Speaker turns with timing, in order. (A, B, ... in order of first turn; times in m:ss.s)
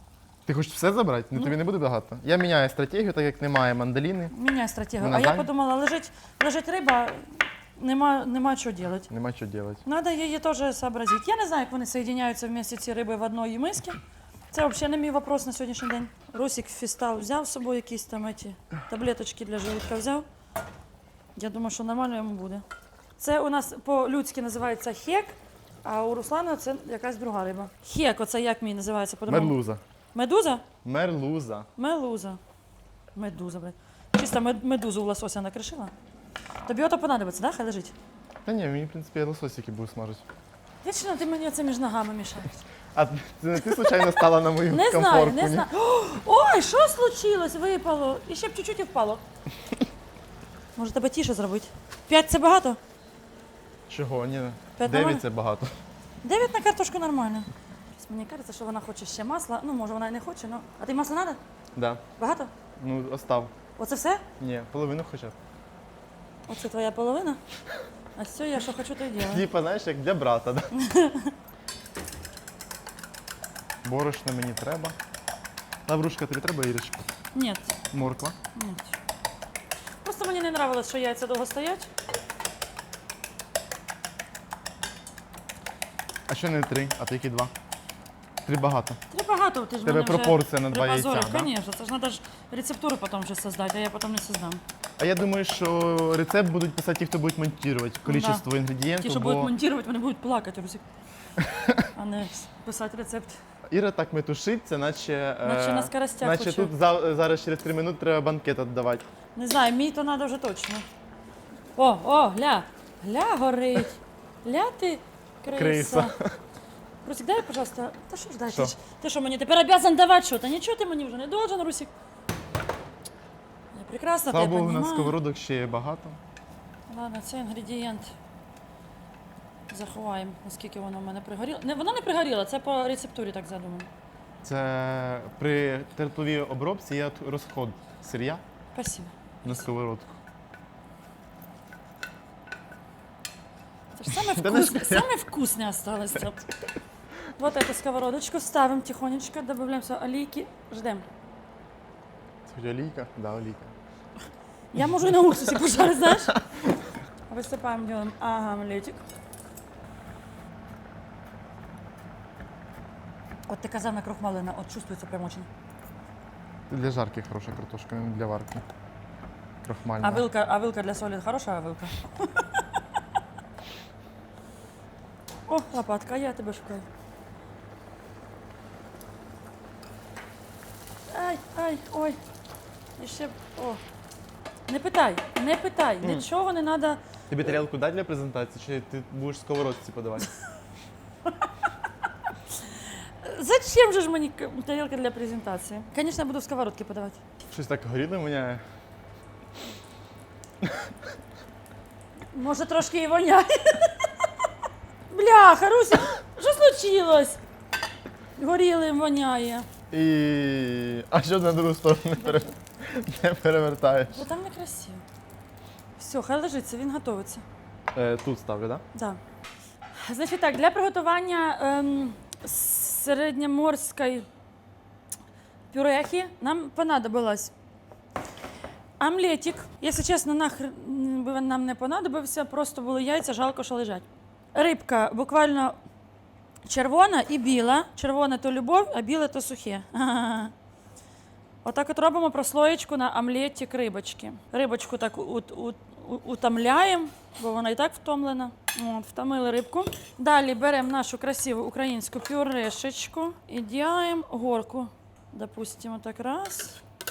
0:00.4-0:04.3 A
0:04.3-0:09.1 B
0:05.0-0:05.5 A
0:09.1-0:09.8 A
0:09.8-0:14.0 B
0:14.5-0:20.2 B
0:21.4-0:22.6 B
0:23.2-0:29.6 B
0:29.3-0:29.8 A
0:30.1-0:30.6 B
0:30.8-0:31.7 A
0:31.8-0:32.4 B
0:33.1-0:35.9 B
0:36.6-0:37.9 B
0:38.4-0:40.2 A
0:40.8-0:42.6 B
0:42.9-0:45.7 A
0:43.6-0:49.2 B
0:50.8-0:52.8 B
0:53.9-0:55.8 A
0:54.8-0:55.2 B
0:56.2-1:01.4 B
1:01.7-1:02.0 A
1:02.2-1:02.5 B
1:02.8-1:03.5 A
1:03.8-1:04.2 B
1:04.4-1:05.4 A
1:06.5-1:07.4 B
1:08.2-1:09.4 B
1:09.2-1:10.7 A
1:10.7-1:11.3 B
1:13.8-1:15.0 A
1:15.9-1:17.0 A
1:17.3-1:17.7 B
1:17.9-1:18.4 A
1:18.5-1:19.0 B
1:20.0-1:21.9 B
1:26.3-1:27.5 A
1:28.4-1:29.0 A
1:29.1-1:34.6 B
1:29.8-1:31.5 A
1:35.0-1:39.5 A
1:38.0-1:38.4 B
1:39.0-1:40.8 B
1:41.4-1:41.9 A
1:41.8-1:43.4 B
1:43.7-1:49.0 A
1:45.4-1:46.7 B
1:49.4-1:50.8 B
1:51.8-1:56.1 B
1:55.5-1:56.4 A
1:57.0-2:01.9 B
1:58.4-1:58.7 A
2:03.7-2:05.2 B
2:04.3-2:06.2 A
2:06.9-2:08.1 B
2:09.7-2:13.9 B
2:14.4-2:18.4 A
2:18.7-2:19.6 B
2:19.4-2:20.2 A
2:23.9-2:26.5 B
2:24.1-2:25.1 A
2:27.4-2:31.0 B
2:32.4-2:33.7 A
2:34.7-2:36.4 B
2:37.3-2:39.0 B
2:43.5-2:45.5 B
2:46.7-2:48.6 A
2:49.6-2:50.3 A
2:50.0-2:52.6 B
2:55.5-2:56.8 B
3:01.1-3:02.2 B
3:03.0-3:03.8 B
3:04.7-3:07.0 B
3:07.3-3:10.3 A
3:12.5-3:17.2 B
3:17.5-3:18.6 A
3:20.6-3:20.9 A
3:22.3-3:24.3 B
3:25.1-3:27.4 B
3:28.4-3:29.7 B
3:29.9-3:34.3 A
3:32.2-3:32.5 B
3:34.1-3:35.0 B
3:36.0-3:37.4 B
3:37.9-3:38.8 A
3:38.9-3:39.2 B
3:39.9-3:44.3 B
3:45.7-3:47.5 B
3:49.0-3:55.8 B
3:56.6-4:00.5 B
4:01.6-4:16.8 B